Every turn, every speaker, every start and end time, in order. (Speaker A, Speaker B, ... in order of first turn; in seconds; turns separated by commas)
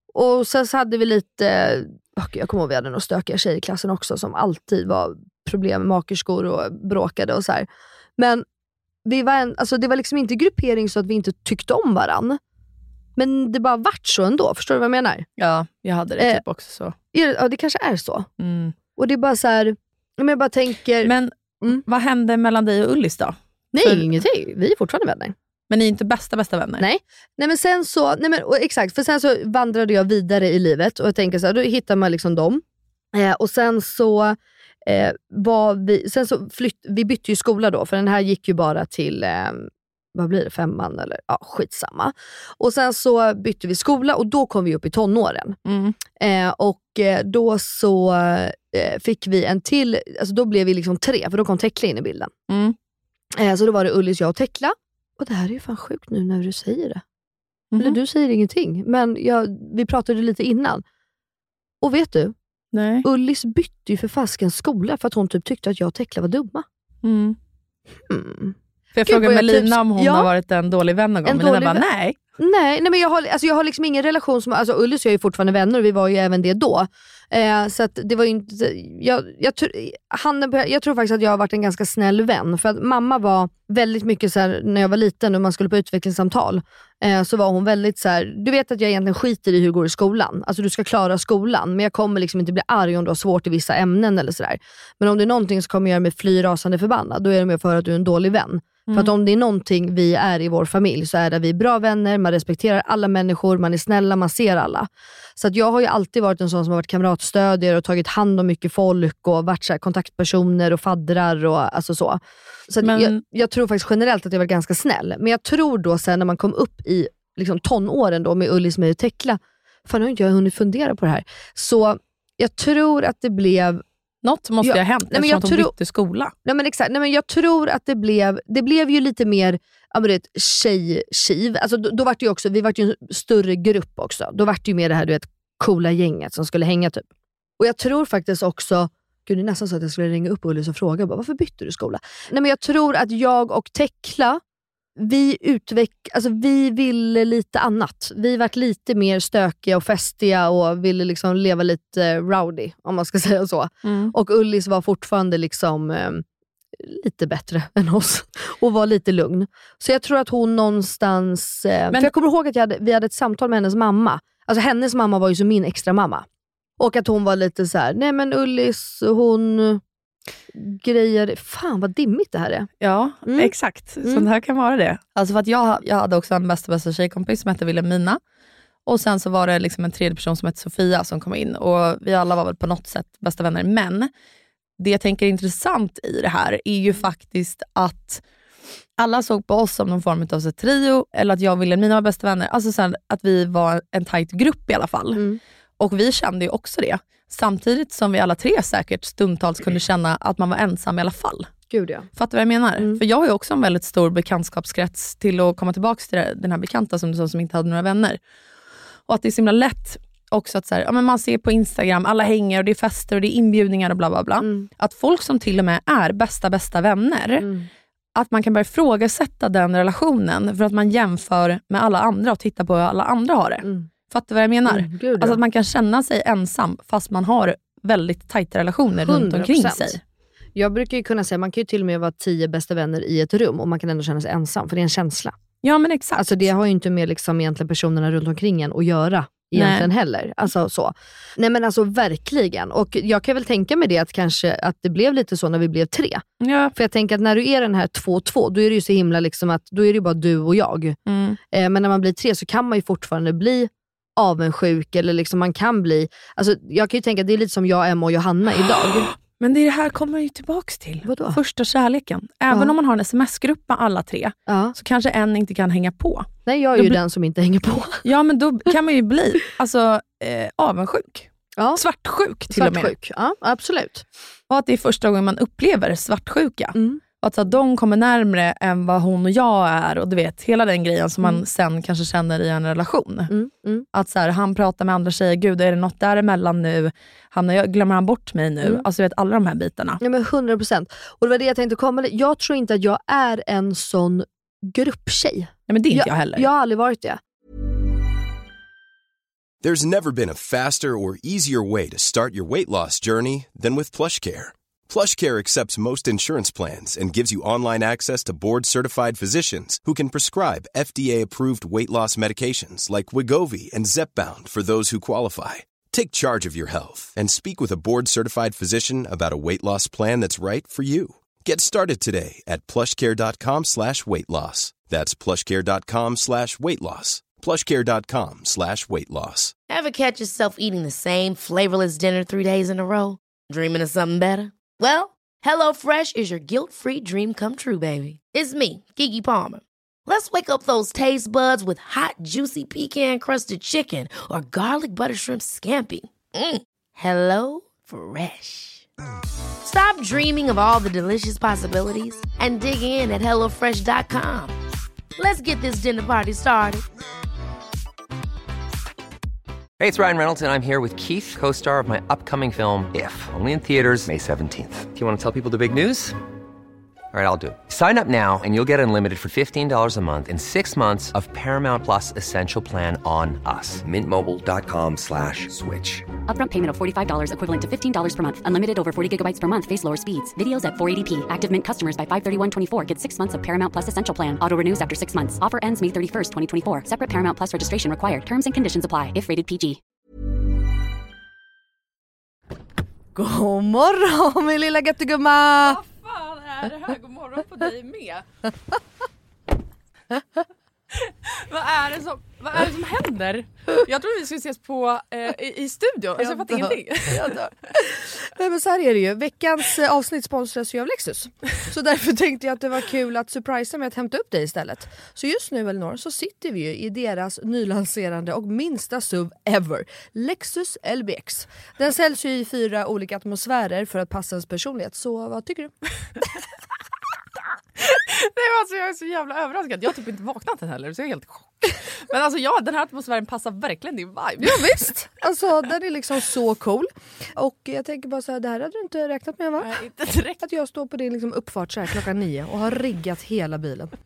Speaker A: 0.1-7.7, Speaker A: 8.2-8.4, Speaker A: 9.0-12.4, Speaker A: 13.2-15.3, Speaker B: 15.4-16.9, Speaker A: 16.2-16.4, Speaker A: 17.1-18.3, Speaker B: 18.4-18.7, Speaker A: 18.9-21.8, Speaker B: 21.0-24.2, Speaker A: 23.7-25.3, Speaker B: 25.7-26.8, Speaker A: 26.8-45.6, Speaker B: 45.6-46.0, Speaker A: 46.2-52.3, Speaker B: 52.5-52.8, Speaker A: 53.4-57.0, Speaker B: 57.7-58.0, Speaker A: 57.8-60.8, Speaker A: 61.8-62.3, Speaker B: 62.7-63.1, Speaker A: 63.0-66.6, Speaker B: 67.0-67.4, Speaker A: 68.1-70.3, Speaker B: 68.9-72.2, Speaker A: 71.2-71.8, Speaker A: 72.4-123.8, Speaker B: 98.9-99.1, Speaker B: 112.8-113.2, Speaker B: 124.2-126.3, Speaker A: 124.6-125.7, Speaker A: 126.4-137.1, Speaker A: 137.6-144.4, Speaker A: 145.0-156.2, Speaker B: 153.8-154.1, Speaker A: 156.8-166.2, Speaker A: 166.8-169.8, Speaker A: 170.5-172.7, Speaker B: 172.8-178.2, Speaker A: 173.2-174.3, Speaker B: 178.8-184.1, Speaker B: 184.8-188.2, Speaker B: 189.0-195.2, Speaker A: 195.1-195.4, Speaker B: 195.8-201.5, Speaker A: 201.7-202.1, Speaker B: 202.1-208.2, Speaker B: 209.1-217.5, Speaker A: 214.4-214.7, Speaker A: 217.4-217.7, Speaker B: 218.1-230.0, Speaker A: 223.6-223.9, Speaker A: 224.7-225.4, Speaker A: 229.0-230.0, Speaker A: 230.6-235.3, Speaker B: 235.6-236.4, Speaker A: 236.2-251.0, Speaker B: 239.5-239.9, Speaker B: 246.4-246.7, Speaker B: 251.1-251.4, Speaker A: 251.5-259.1, Speaker B: 258.6-267.0, Speaker A: 261.0-261.4, Speaker A: 264.5-264.7, Speaker A: 266.4-268.0, Speaker B: 268.0-272.9, Speaker A: 272.5-274.0, Speaker B: 274.5-283.3, Speaker A: 276.7-277.0, Speaker A: 283.3-283.9, Speaker B: 283.9-290.0, Speaker A: 290.0-297.2, Speaker B: 295.7-296.5, Speaker C: 299.6-329.5, Speaker D: 329.7-348.8, Speaker D: 349.6-354.5, Speaker D: 355.1-356.9, Speaker E: 359.8-366.2, Speaker E: 367.1-376.1, Speaker F: 376.3-389.8, Speaker A: 393.1-395.8, Speaker B: 395.6-398.2, Speaker B: 400.9-407.8, Speaker A: 406.2-425.7, Speaker B: 427.8-435.1, Speaker A: 434.4-439.8, Speaker B: 439.6-440.4, Speaker A: 440.4-443.9